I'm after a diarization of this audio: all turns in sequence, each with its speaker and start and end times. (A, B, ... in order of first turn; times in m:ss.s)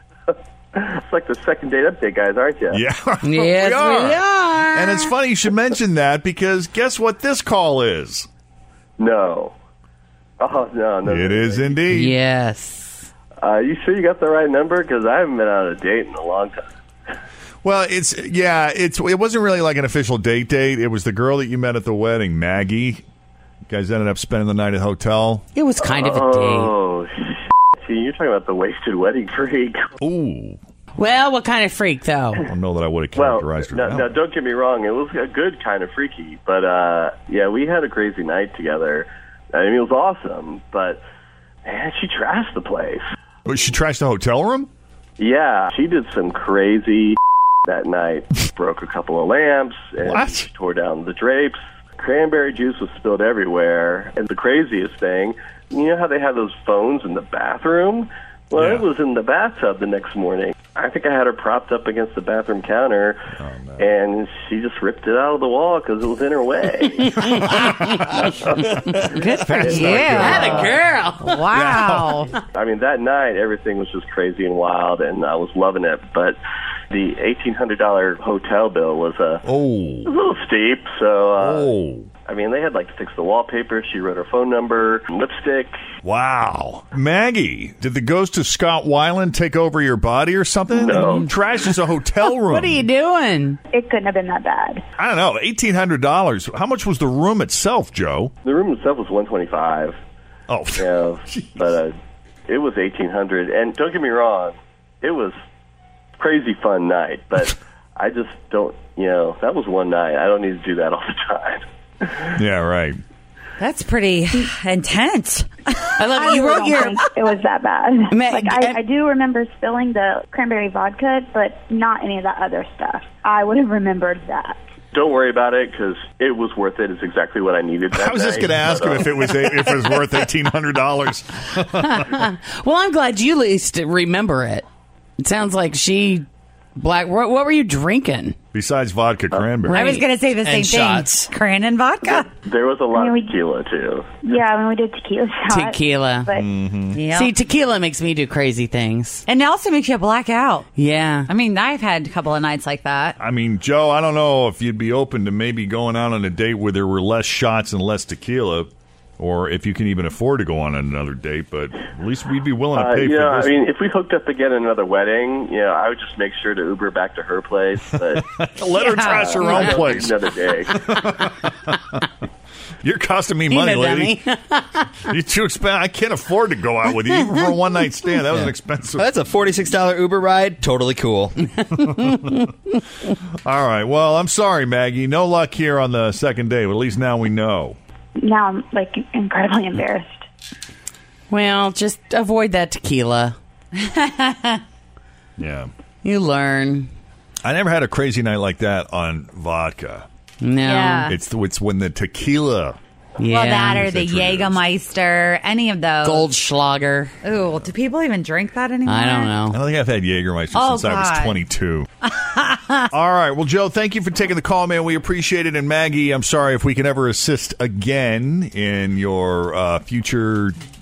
0:00.7-0:02.8 A
0:02.7-0:04.2 B
0:03.2-0:05.1 C
0:04.7-0:08.3 B
0:09.0-0:09.5 A
0:10.4-0:11.9 A
0:11.0-0:12.2 B
0:11.9-0:13.1 C
0:13.4-0:16.6 A
0:17.6-0:23.0 B
0:23.7-0:25.4 B
0:25.6-0:26.7 C
0:25.8-0:29.8 A
0:30.0-0:30.6 B
0:31.0-0:32.4 C
0:32.4-0:34.1 B
0:33.2-0:41.0 A
0:41.6-0:43.0 A
0:43.4-0:44.7 B
0:45.2-1:03.2 A
0:50.0-0:50.5 B
0:58.5-0:58.9 B
1:03.4-1:03.9 B
1:03.8-1:07.2 A
1:07.2-1:07.9 C
1:07.5-1:10.9 B
1:08.2-1:10.7 A
1:09.1-1:12.4 D
1:10.1-1:11.4 C
1:11.5-1:12.2 B
1:12.5-1:16.4 A
1:16.9-1:19.4 A
1:19.4-1:20.1 B
1:20.0-1:21.7 A
1:21.4-1:22.1 B
1:22.2-1:25.7 A
1:26.0-1:32.8 B
1:30.7-1:31.3 A
1:32.3-1:33.6 C
1:33.7-1:34.8 E
1:35.0-1:38.3 B
1:38.4-1:40.0 A
1:40.5-1:41.8 B
1:40.8-1:41.9 A
1:42.5-1:45.3 A
1:46.2-1:51.6 A
1:52.3-1:53.0 B
1:53.6-1:56.0 D
1:56.0-1:56.8 C
1:56.1-2:04.6 E
1:56.6-1:57.0 D
1:58.1-1:58.8 C
2:04.9-2:09.3 A
2:07.9-2:12.2 B
2:11.9-2:14.6 C
2:15.2-2:18.4 C
2:18.5-2:19.8 B
2:19.6-2:20.0 C
2:19.7-2:22.2 D
2:20.4-2:21.3 F
2:22.0-2:24.0 A
2:22.9-2:23.3 E
2:24.2-2:26.5 E
2:25.5-2:26.3 C
2:26.3-2:27.0 B
2:26.9-2:27.3 D
2:27.1-2:29.2 C
2:29.2-2:30.7 D
2:30.8-2:31.3 C
2:31.2-2:33.2 D
2:33.2-2:43.6 B
2:42.7-2:48.2 A
2:47.9-2:52.0 B
2:48.8-2:49.8 D
2:49.0-2:50.7 A
2:52.8-2:54.2 B
2:53.5-2:54.9 C
2:55.1-2:59.1 B
2:59.0-3:01.4 F
3:03.4-3:07.8 B
3:08.2-3:10.2 E
3:11.3-3:13.4 C
3:13.8-3:14.5 D
3:15.4-3:15.7 B
3:16.0-3:16.9 C
3:17.4-3:20.0 B
3:20.4-3:21.0 C
3:20.6-3:21.2 D
3:21.0-3:22.8 B
3:23.2-3:23.8 C
3:23.3-3:26.3 D
3:23.8-3:24.6 B
3:26.0-3:27.2 C
3:27.2-3:29.4 D
3:28.8-3:29.6 C
3:29.5-3:31.9 B
3:30.5-3:31.4 D
3:32.1-3:32.8 D
3:32.9-3:40.6 B